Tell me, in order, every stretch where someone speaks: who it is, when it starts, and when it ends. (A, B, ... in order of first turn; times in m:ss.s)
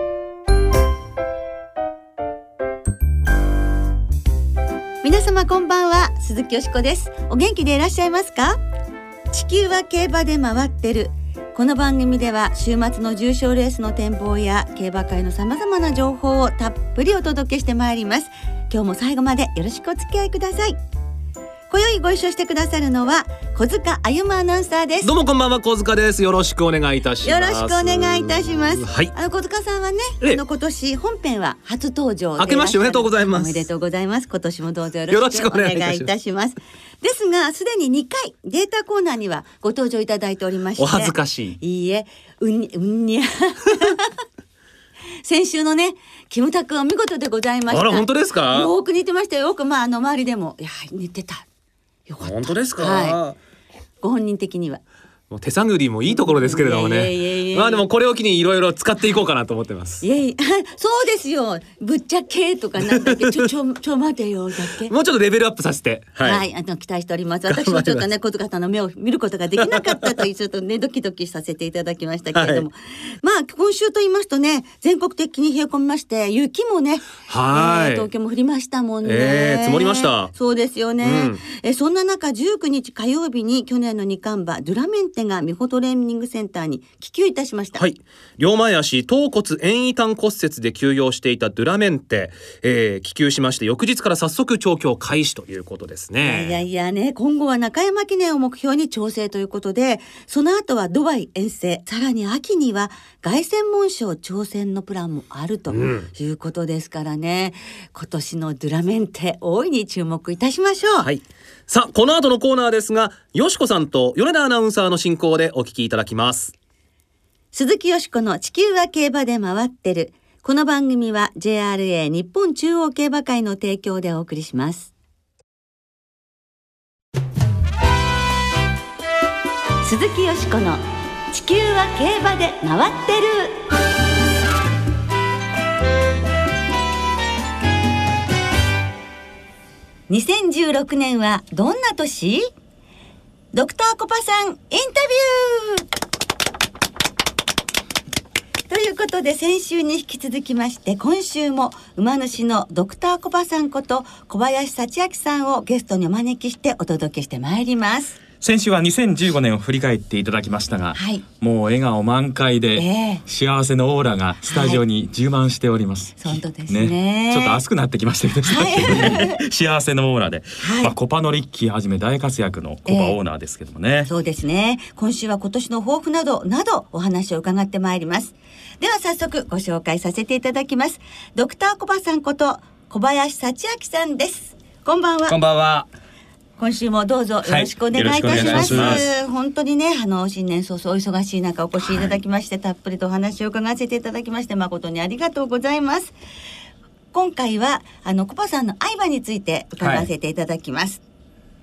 0:05.0-0:08.6 A
0:09.3-0:20.8 A
0:21.7-0:25.1 A
0:25.0-0:29.1 B
0:27.2-0:44.1 A
0:32.4-0:33.6 B
0:35.1-0:36.1 B
0:40.8-0:41.6 B
0:45.2-0:51.4 A
0:47.7-0:48.7 B
0:52.1-0:53.2 A
0:52.2-0:53.4 B
0:54.0-0:54.8 A
0:55.3-1:00.0 B
0:56.1-0:57.9 A
1:00.0-1:04.9 A
1:02.9-1:03.4 B
1:04.9-1:06.4 B
1:06.2-1:27.8 A
1:07.5-1:08.0 B
1:09.6-1:10.1 B
1:12.3-1:12.6 B
1:17.3-1:18.1 B
1:19.0-1:20.3 B
1:21.0-1:21.4 B
1:27.7-1:36.6 B
1:36.2-1:51.1 A
1:45.7-1:46.1 B
1:51.0-1:56.5 B
1:57.5-2:04.9 A
2:09.8-2:13.6 A
2:20.1-2:22.5 A
2:23.5-2:25.8 A
2:28.7-2:38.2 A
2:38.4-2:54.1 C
2:41.0-2:41.2 A
2:42.8-2:43.2 A
2:44.4-2:44.8 A
2:46.2-2:47.6 A
2:48.4-2:49.4 A
2:50.6-2:50.9 A
2:52.8-2:53.2 A
2:54.0-3:05.4 A
3:05.3-3:05.9 D
3:06.6-3:16.1 A
3:07.4-3:09.0 D
3:07.9-3:09.0 C
3:17.1-3:21.0 A
3:19.8-3:20.1 D